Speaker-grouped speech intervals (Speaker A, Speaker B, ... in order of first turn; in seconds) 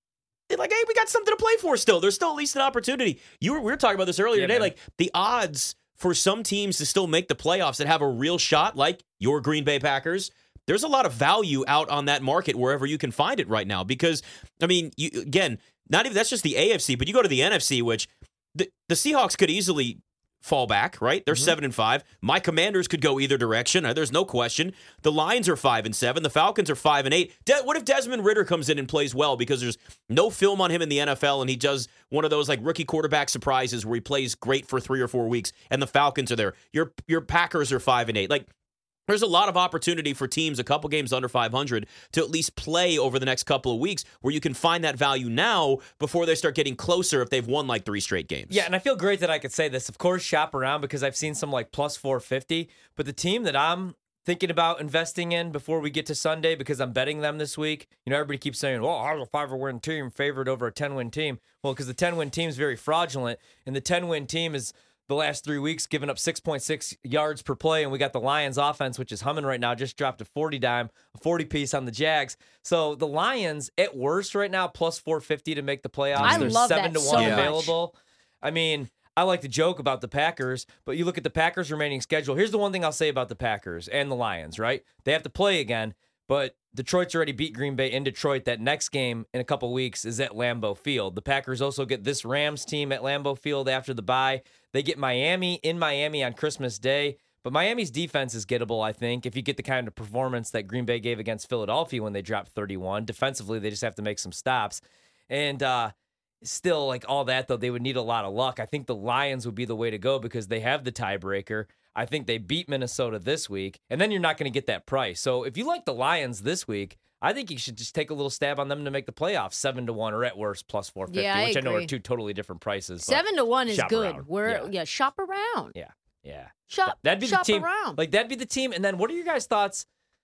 Speaker A: 0.5-38.5, 39.1-48.7, 76.2-76.6, 77.1-77.5
Speaker B: 4.3-4.7, 48.5-124.7, 125.7-129.9
Speaker C: 76.2-77.7, 121.1-121.9, 123.0-125.7, 126.7-128.0